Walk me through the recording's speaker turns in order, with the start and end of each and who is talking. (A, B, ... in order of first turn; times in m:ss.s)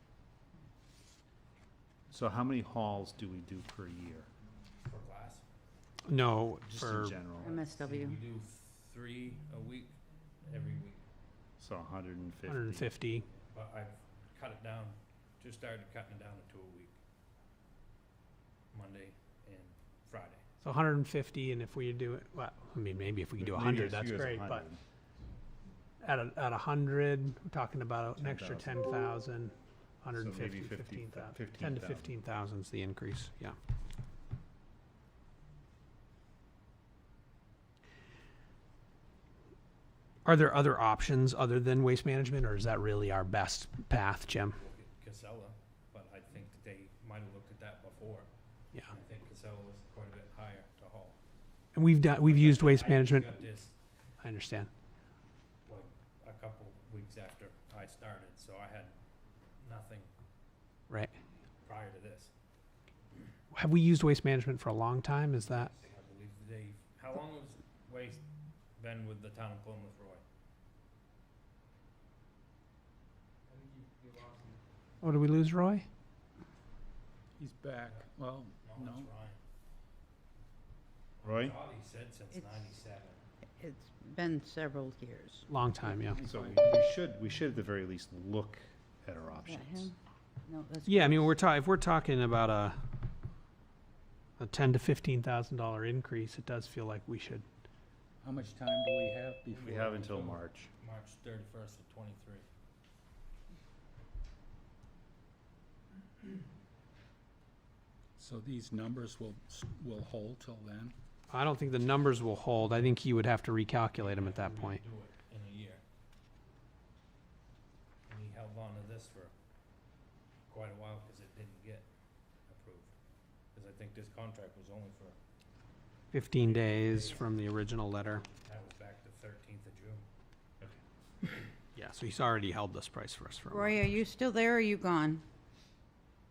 0:02.1-0:04.3 A
0:04.8-0:05.5 B
0:06.1-0:07.2 C
0:06.6-0:07.6 A
0:07.4-0:08.2 D
0:07.8-0:11.0 B
0:11.6-0:12.9 A
0:12.5-0:13.3 C
0:13.4-0:17.0 B
0:18.7-0:20.4 B
0:20.6-0:24.7 C
0:23.4-0:24.8 A
0:26.0-0:33.6 C
0:28.2-0:28.8 A
0:30.2-0:32.2 A
0:40.2-0:44.6 C
0:44.6-0:48.3 B
0:48.8-0:51.2 B
0:51.8-0:53.4 C
0:52.1-0:53.7 B
0:54.2-0:54.7 C
0:55.7-0:59.0 B
0:59.6-1:00.1 B
1:00.9-1:01.2 C
1:01.6-1:02.3 B
1:03.5-1:05.7 C
1:05.4-1:08.2 B
1:08.8-1:10.2 B
1:15.0-1:15.9 C
1:17.4-1:19.1 E
1:18.6-1:19.4 B
1:21.2-1:21.6 A
1:21.2-1:23.2 B
1:23.6-1:25.5 D
1:25.5-1:26.2 C
1:26.0-1:26.8 E
1:26.2-1:29.9 A
1:29.4-1:29.9 D
1:30.5-1:31.4 D
1:30.9-1:32.8 C
1:34.4-1:37.4 C
1:38.2-1:39.8 E
1:39.5-1:42.5 B
1:39.7-1:40.7 A
1:48.2-1:51.0 E
1:51.3-1:54.8 C
1:54.0-1:55.8 B
1:58.1-1:59.3 B
2:00.5-2:01.9 B
2:02.5-2:02.9 B
2:03.6-2:05.2 B
2:06.1-2:08.2 C
2:06.4-2:07.3 B
2:08.0-2:10.0 B
2:11.8-2:13.9 C
2:13.5-2:15.2 D